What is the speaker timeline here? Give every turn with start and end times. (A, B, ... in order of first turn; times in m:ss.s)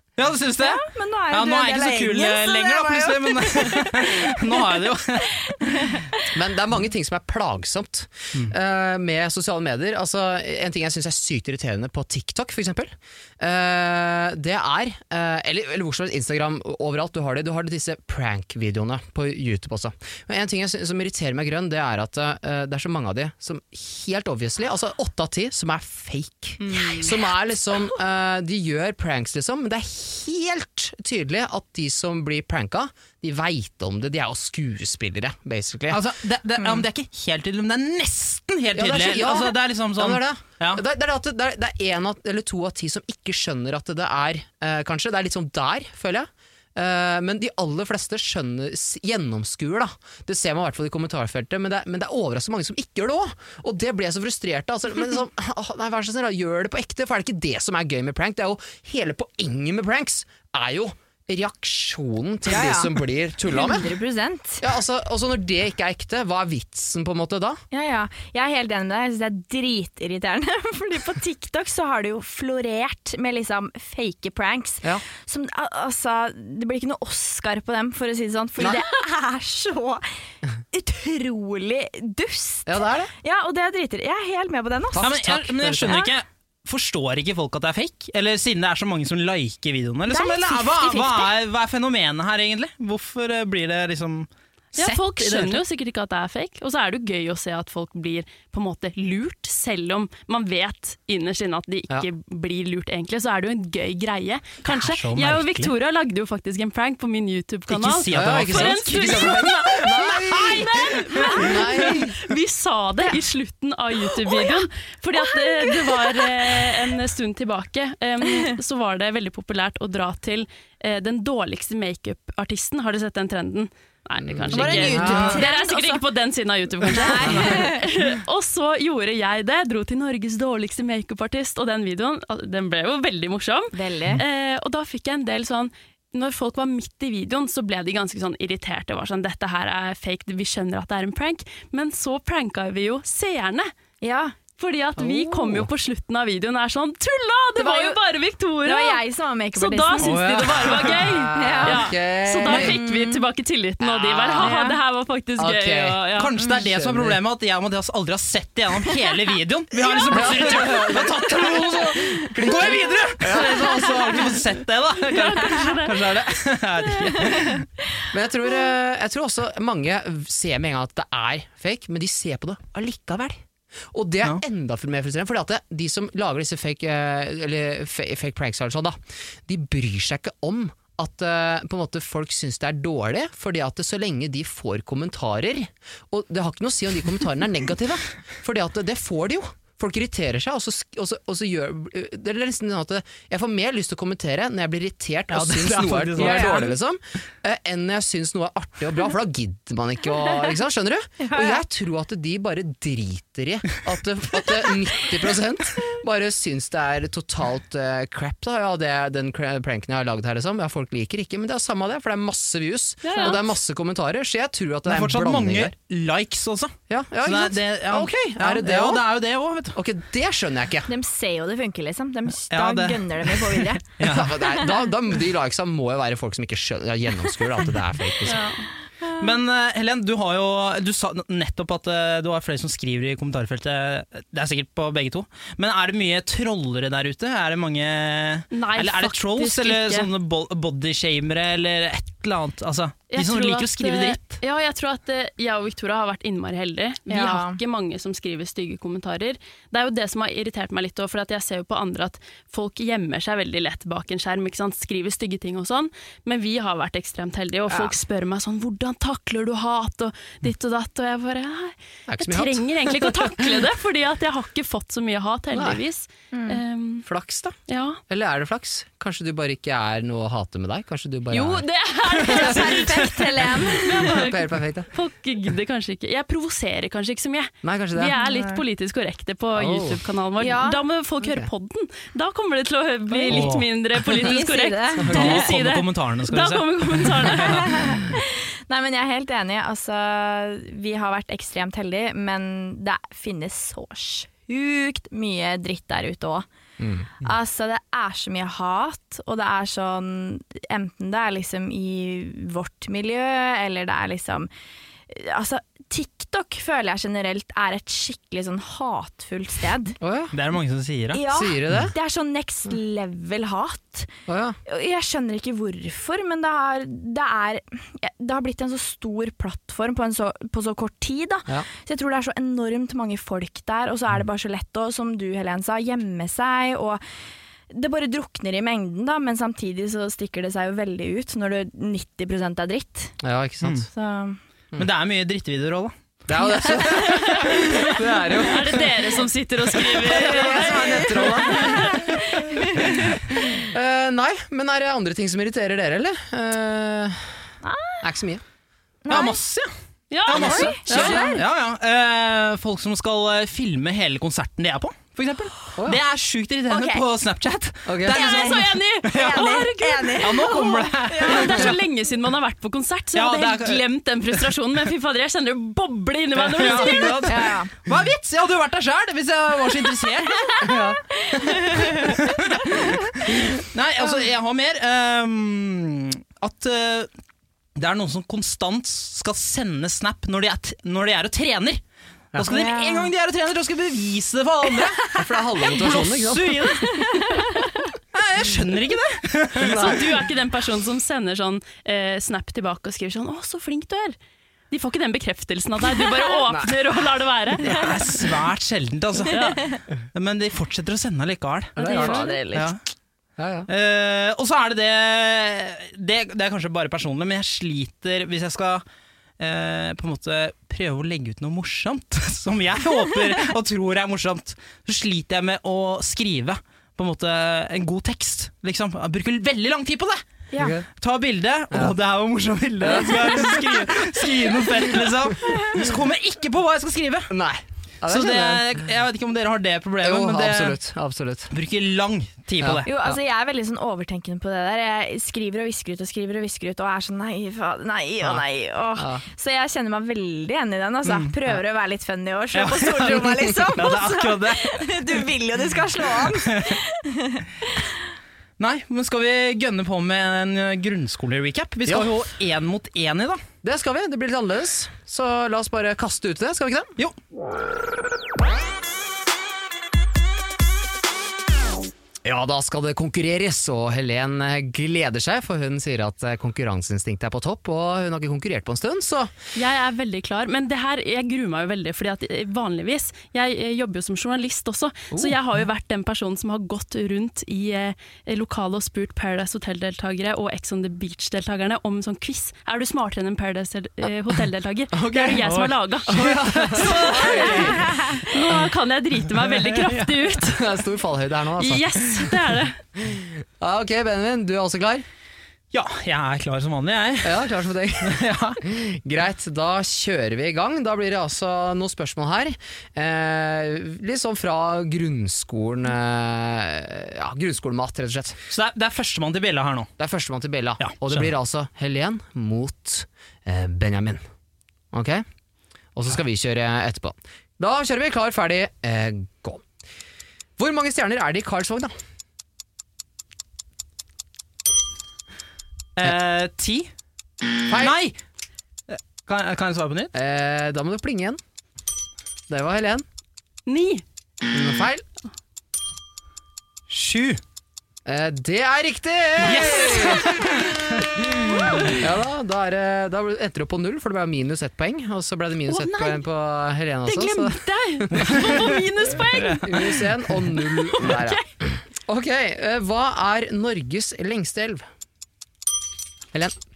0:00.2-0:05.9 A
0:00.6-0:04.9 B
0:05.5-0:06.1 B
0:06.3-0:36.0 C
0:26.8-0:27.1 B
0:35.9-0:40.8 A
0:38.8-1:03.9 C
1:02.5-1:02.9 B
1:03.5-1:04.6 B
1:04.6-1:07.6 C
1:07.7-1:20.0 B
1:20.7-1:25.1 B
1:22.7-1:23.1 C
1:24.9-1:26.1 C
1:25.0-1:35.6 A
1:25.8-1:26.1 B
1:30.1-1:31.3 B
1:34.8-2:23.7 D
1:44.7-1:45.7 A
1:47.7-1:49.9 A
1:48.1-1:52.2 C
1:54.3-1:54.5 B
1:55.3-1:56.8 B
1:58.3-1:58.5 B
2:04.2-2:05.4 C
2:04.5-2:06.0 B
2:04.6-2:05.4 A
2:06.8-2:07.9 B
2:13.7-2:14.2 B
2:24.0-2:24.4 B
2:24.6-2:29.0 D
2:25.0-2:25.7 C
2:27.6-2:28.0 B
2:28.6-2:30.3 B
2:29.6-2:36.3 D
2:30.0-2:32.8 C
2:31.4-2:31.9 B
2:32.5-2:33.2 B
2:33.8-2:34.6 C
2:34.4-2:34.8 B
2:35.4-2:36.0 C
2:36.2-2:47.7 A
2:36.6-2:37.2 C
2:40.1-2:44.4 C
2:45.1-2:46.0 D
2:48.1-2:53.4 C
2:53.9-3:35.7 C
3:15.3-3:16.7 A
3:16.2-3:16.7 B
3:21.2-3:21.6 B
3:33.0-3:33.4 D
3:34.9-3:39.8 A
3:36.9-3:39.0 C
3:39.7-3:40.9 C
3:40.9-3:43.8 B
3:42.5-3:44.4 A
3:44.0-3:48.5 C
3:44.4-3:44.7 B
3:48.2-3:48.6 D
3:49.2-4:04.4 A
3:58.5-4:00.1 D
4:03.1-4:27.1 D
4:07.1-4:07.6 B
4:17.7-4:18.0 B
4:22.1-4:23.5 C
4:25.5-4:25.8 C
4:26.3-4:26.6 B
4:27.0-4:27.6 C
4:27.7-4:28.0 D
4:28.1-4:31.6 C
4:31.3-4:47.8 D
4:32.2-4:34.2 B
4:32.3-4:32.9 C
4:33.7-4:34.9 C
4:37.6-4:38.2 C
4:38.1-4:38.6 B
4:39.6-4:40.0 C
4:40.4-4:40.8 B
4:41.2-4:41.5 C
4:43.1-4:43.5 B
4:43.3-4:43.7 A
4:44.0-4:45.5 B
4:45.1-4:47.6 A
4:47.4-4:56.5 B
4:56.8-4:57.1 C
4:57.2-5:04.5 B
5:05.1-5:10.0 B
5:10.0-5:10.3 C
5:10.3-5:11.2 A
5:11.1-5:14.1 B
5:11.3-5:11.9 C
5:14.3-5:14.6 C
5:14.7-5:27.0 B
5:27.7-5:33.2 B
5:33.2-5:33.9 C
5:33.9-5:34.4 B
5:34.8-5:36.0 A
5:36.3-5:39.1 C
5:36.7-5:38.0 B
5:38.4-5:42.0 D
5:39.8-5:42.2 C
5:40.2-5:43.2 B
5:42.8-5:47.4 C
5:47.6-5:48.1 B
5:48.0-5:48.4 C
5:49.0-5:49.4 B
5:49.1-5:49.7 A
5:50.1-5:50.8 D
5:50.3-6:01.7 A
5:50.3-5:51.4 B
5:50.9-5:51.4 C
5:56.7-5:57.0 B
5:57.8-5:58.2 C
5:58.1-6:01.7 B
5:58.2-6:07.3 D
6:03.2-6:03.8 A
6:06.4-6:10.8 A
6:07.3-6:07.7 B
6:10.4-6:12.9 B
6:10.6-6:11.6 C
6:11.6-6:17.1 A
6:17.8-6:21.8 A
6:22.4-6:25.1 A
6:22.5-6:23.1 B
6:25.1-6:26.6 C
6:25.7-6:27.4 A
6:26.7-6:27.8 B
6:28.1-6:30.0 A
6:29.6-6:30.2 C
6:29.7-6:34.2 D
6:34.7-6:37.8 D
6:36.5-6:36.8 C
6:37.6-6:42.8 A
6:39.3-6:39.6 D
6:41.8-6:42.2 C
6:41.8-6:42.7 B
6:41.8-6:42.4 D
6:43.4-6:43.7 C
6:43.7-6:48.8 A
6:49.4-7:00.2 A
7:00.6-7:00.9 C
7:01.0-7:07.3 A
7:02.8-7:04.1 C
7:07.3-7:08.7 C
7:08.1-7:10.8 A
7:10.0-7:11.5 C
7:11.5-7:12.9 A
7:12.6-7:13.2 C
7:12.8-7:27.9 B
7:19.0-7:19.2 C
7:21.1-7:21.3 A
7:22.5-7:25.3 A
7:26.0-7:26.8 A
7:28.6-7:33.4 A
7:31.9-7:32.1 C
7:33.6-7:37.0 C
7:42.2-7:49.3 C
7:49.6-8:10.7 D
7:55.1-7:55.4 C
8:04.9-8:05.5 C
8:05.4-8:08.1 A
8:06.1-8:07.9 C
8:07.6-8:08.2 B
8:09.6-8:10.1 A
8:10.4-8:12.3 C
8:11.6-8:12.8 D
8:13.0-8:15.1 C
8:15.7-8:17.5 A
8:17.2-8:28.4 C
8:18.0-8:18.6 A
8:28.5-8:29.9 A
8:30.0-8:34.2 C
8:30.8-8:31.3 A
8:34.9-8:35.2 C
8:36.0-8:39.6 C
8:40.6-8:41.9 C
8:46.0-8:46.9 A
8:47.7-8:48.0 C
8:47.7-8:48.2 A
8:48.9-8:50.1 A
8:50.1-8:51.4 C
8:52.5-8:53.1 C
8:53.7-8:54.0 D
8:54.5-8:55.0 C
8:56.9-8:57.4 A
8:58.0-9:00.6 C
8:59.4-9:00.5 D
8:59.5-9:01.0 A
9:01.5-9:02.0 D
9:01.9-9:08.7 C
9:05.7-9:06.2 D
9:07.1-9:10.0 D
9:08.1-9:08.6 A
9:09.6-9:14.9 C
9:10.6-9:11.4 D